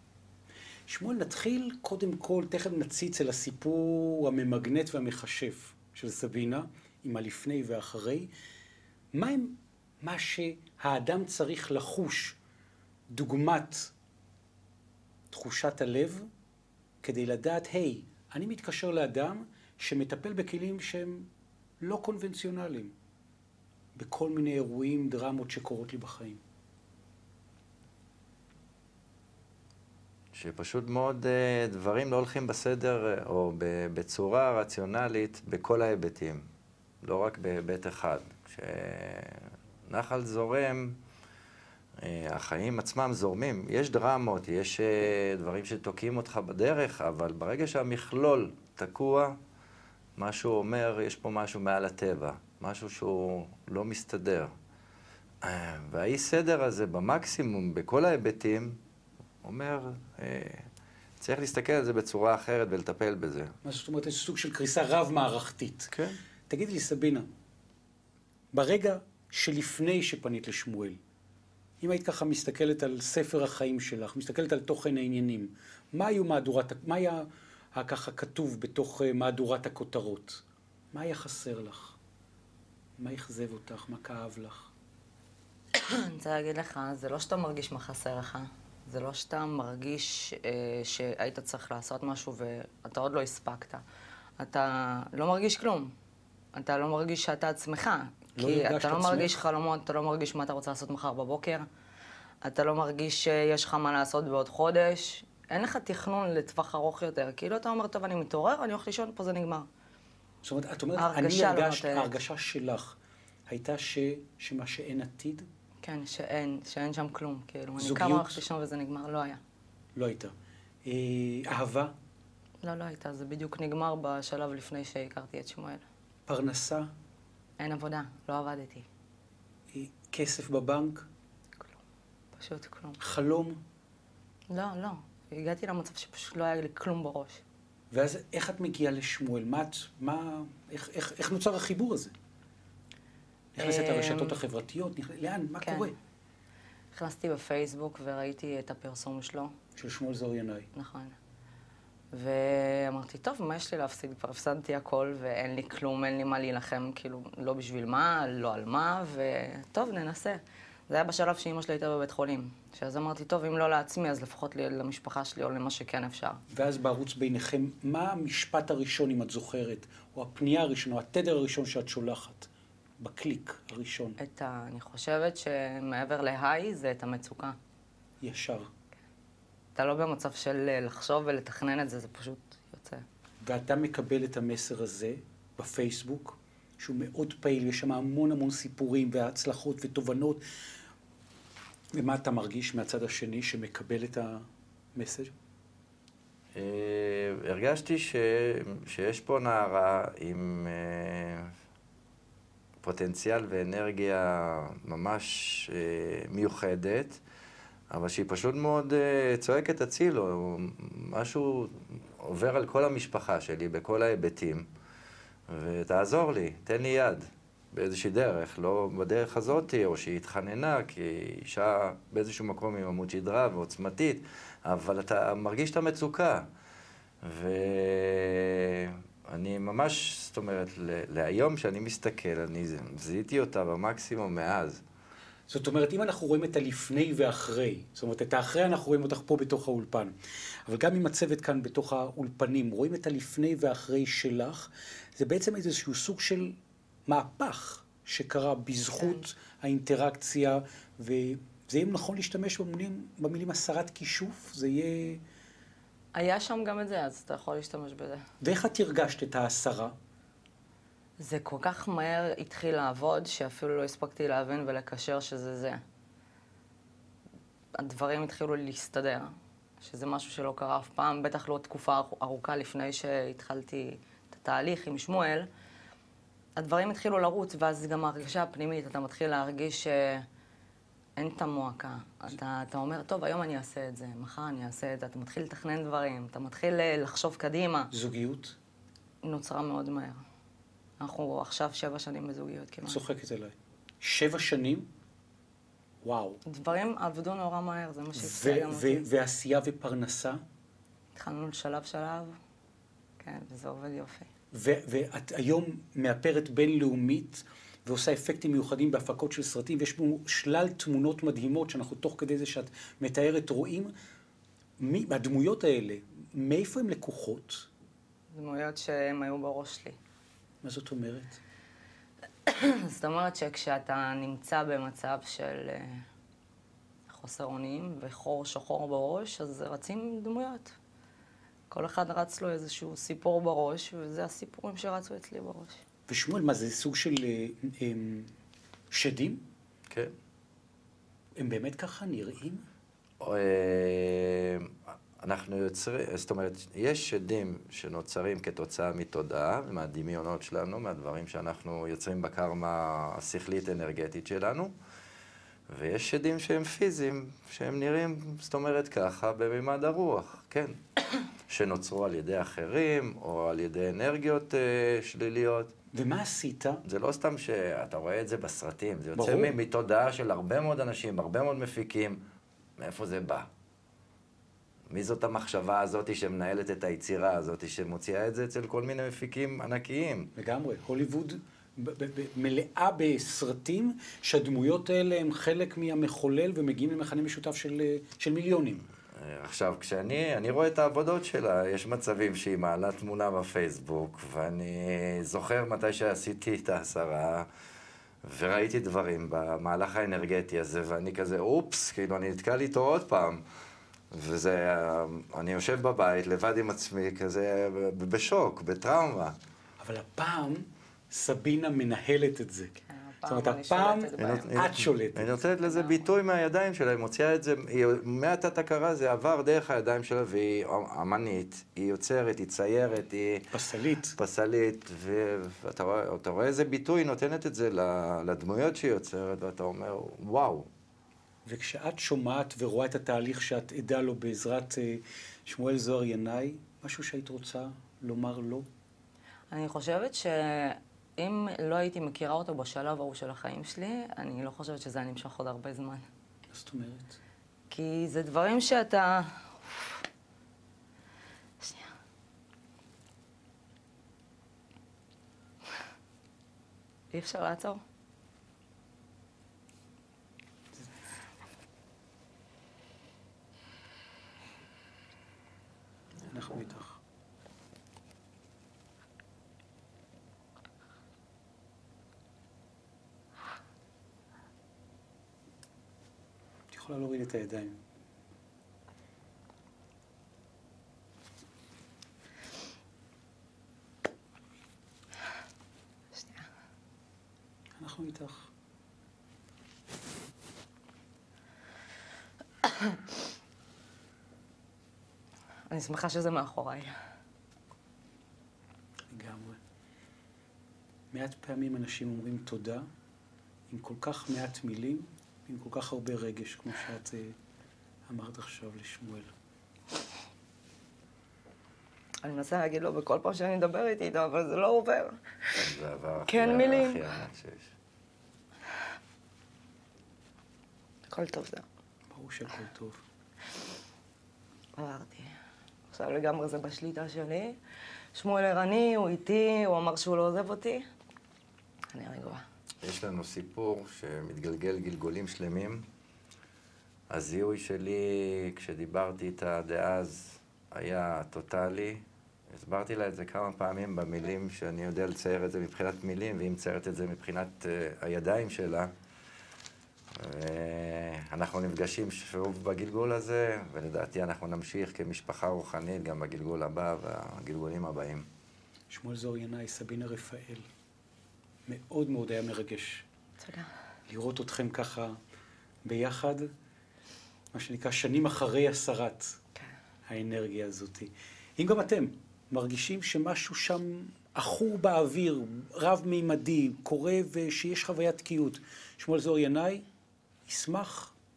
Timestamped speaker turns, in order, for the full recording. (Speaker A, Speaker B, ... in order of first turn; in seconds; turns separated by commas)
Speaker A: 0.9-8.3, Speaker A: 9.1-12.4, Speaker A: 13.1-13.9, Speaker A: 15.3-16.3, Speaker A: 17.0-21.3, Speaker A: 21.8-22.9, Speaker A: 23.9-26.4, Speaker B: 30.3-36.4, Speaker B: 37.0-41.0, Speaker B: 42.0-49.4, Speaker B: 50.2-54.5, Speaker B: 55.4-58.8, Speaker B: 59.4-60.7, Speaker B: 61.2-63.5, Speaker A: 63.6-65.9, Speaker B: 65.9-66.2, Speaker A: 66.5-67.3, Speaker A: 68.5-71.0, Speaker A: 71.8-80.4, Speaker A: 80.9-82.0, Speaker A: 83.0-84.7, Speaker C: 85.8-93.8, Speaker C: 94.4-95.9, Speaker C: 96.5-101.7, Speaker A: 98.4-99.3, Speaker C: 102.4-109.7, Speaker A: 110.4-113.0, Speaker C: 111.0-112.1, Speaker A: 113.5-115.5, Speaker C: 115.8-119.4, Speaker A: 117.8-118.4, Speaker A: 119.9-120.3, Speaker A: 120.8-121.9, Speaker C: 122.6-125.8, Speaker A: 126.3-126.9, Speaker C: 127.6-128.8, Speaker A: 129.7-131.1, Speaker C: 132.3-133.0, Speaker A: 133.0-133.6, Speaker C: 134.5-137.4, Speaker A: 137.9-142.1, Speaker A: 143.5-145.9, Speaker C: 143.6-144.4, Speaker C: 145.6-145.9, Speaker C: 146.9-149.5, Speaker A: 149.8-150.7, Speaker C: 150.7-151.2, Speaker C: 152.1-166.4, Speaker A: 166.5-172.5, Speaker A: 173.0-174.2, Speaker C: 174.2-177.6, Speaker A: 178.2-178.7, Speaker C: 179.8-183.0, Speaker A: 183.4-190.4, Speaker A: 191.9-194.4, Speaker A: 194.9-195.3, Speaker B: 196.5-201.5, Speaker B: 202.8-207.2, Speaker B: 207.9-214.7, Speaker B: 215.5-226.5, Speaker B: 227.2-234.8, Speaker A: 235.5-240.1, Speaker A: 240.7-255.2, Speaker C: 256.1-258.2, Speaker A: 258.4-259.9, Speaker C: 261.2-265.8, Speaker C: 267.7-275.5, Speaker C: 276.6-280.2, Speaker C: 281.2-287.9, Speaker A: 287.9-288.5, Speaker C: 289.2-290.2, Speaker C: 291.0-293.0, Speaker A: 292.9-294.9, Speaker A: 296.0-296.4, Speaker C: 296.4-299.1, Speaker A: 298.1-300.4, Speaker C: 301.1-302.4, Speaker C: 303.2-304.3, Speaker A: 304.5-313.9, Speaker A: 314.8-317.7, Speaker C: 318.3-320.0, Speaker A: 320.6-321.4, Speaker C: 322.5-326.0, Speaker C: 327.1-330.8, Speaker C: 331.7-335.8, Speaker A: 336.1-338.3, Speaker A: 338.9-339.4, Speaker A: 341.4-342.6, Speaker B: 343.2-354.7, Speaker B: 355.7-365.7, Speaker A: 365.9-366.8, Speaker B: 366.9-372.2, Speaker A: 369.1-369.6, Speaker B: 372.8-373.5, Speaker B: 374.9-380.3, Speaker A: 380.4-388.8, Speaker B: 389.1-397.5, Speaker B: 398.2-403.4, Speaker B: 404.1-409.3, Speaker A: 409.8-412.7, Speaker C: 412.9-414.8, Speaker A: 413.3-415.4, Speaker B: 414.2-423.4, Speaker C: 415.5-416.1, Speaker A: 423.5-424.1, Speaker B: 424.2-430.7, Speaker A: 431.4-438.6, Speaker C: 439.5-446.1, Speaker A: 446.5-447.2, Speaker C: 447.7-449.9, Speaker C: 451.6-451.9, Speaker C: 457.1-457.8, Speaker A: 466.3-467.0, Speaker A: 476.7-477.8, Speaker C: 486.1-486.5, Speaker A: 487.8-488.5, Speaker C: 495.7-496.9, Speaker A: 499.1-499.6, Speaker A: 501.1-502.9, Speaker A: 503.7-507.3, Speaker A: 508.1-509.3, Speaker C: 512.2-515.6, Speaker B: 515.5-517.7, Speaker C: 516.2-517.1, Speaker C: 521.1-521.6, Speaker A: 522.1-523.0, Speaker C: 524.8-525.3, Speaker C: 525.9-527.6, Speaker C: 528.1-530.9, Speaker C: 531.9-532.4, Speaker B: 532.8-535.9, Speaker B: 537.1-548.9, Speaker B: 550.1-558.2, Speaker A: 558.9-560.7, Speaker A: 561.7-563.0, Speaker C: 563.4-563.7, Speaker A: 564.1-565.1, Speaker A: 565.8-566.5, Speaker A: 567.5-569.4, Speaker A: 570.1-579.8, Speaker A: 580.5-581.1